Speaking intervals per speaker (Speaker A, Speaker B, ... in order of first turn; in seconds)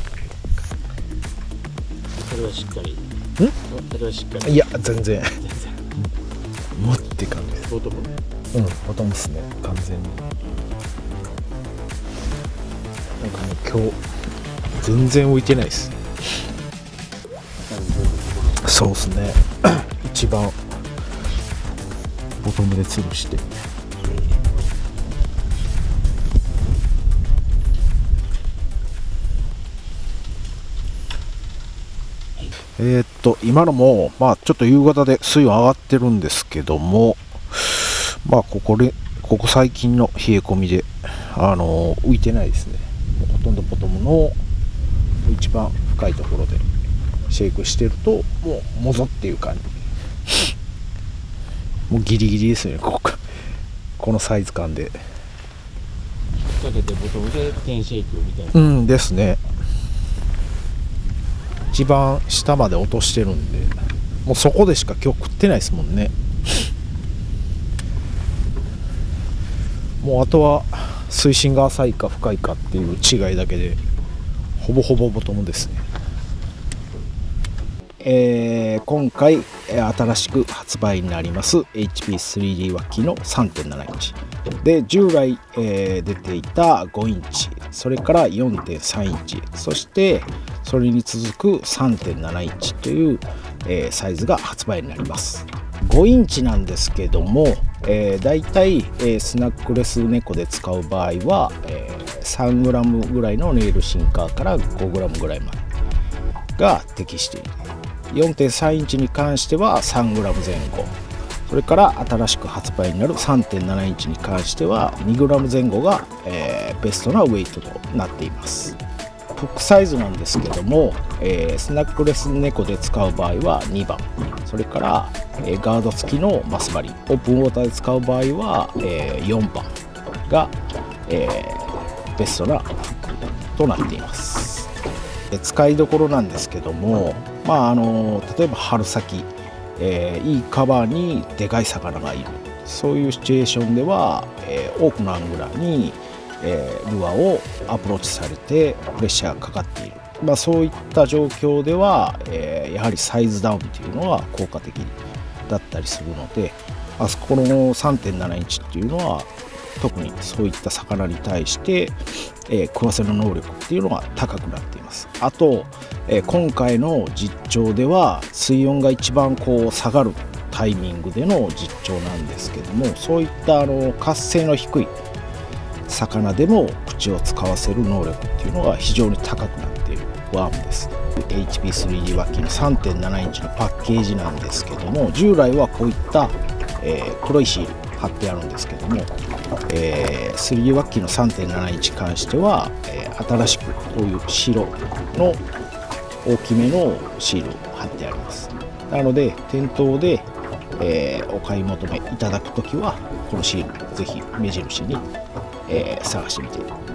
Speaker A: 2.2-3.0, 3.6-5.8, 7.6-8.1, 17.6-18.6, 56.4-58.8
Speaker B: 4.4-5.3, 6.7-7.7, 8.5-10.2, 13.2-14.0, 14.8-16.4, 18.6-20.6, 22.4-23.5, 32.8-44.4, 45.2-46.7, 47.3-49.8, 51.9-53.2, 54.0-55.0, 58.5-59.4, 61.7-66.7, 70.0-73.8, 74.6-75.8, 78.0-105.7, 106.6-118.8, 119.3-133.0, 133.5-134.7, 135.3-174.9, 175.9-189.1, 189.7-195.4, 196.2-205.0, 205.7-206.7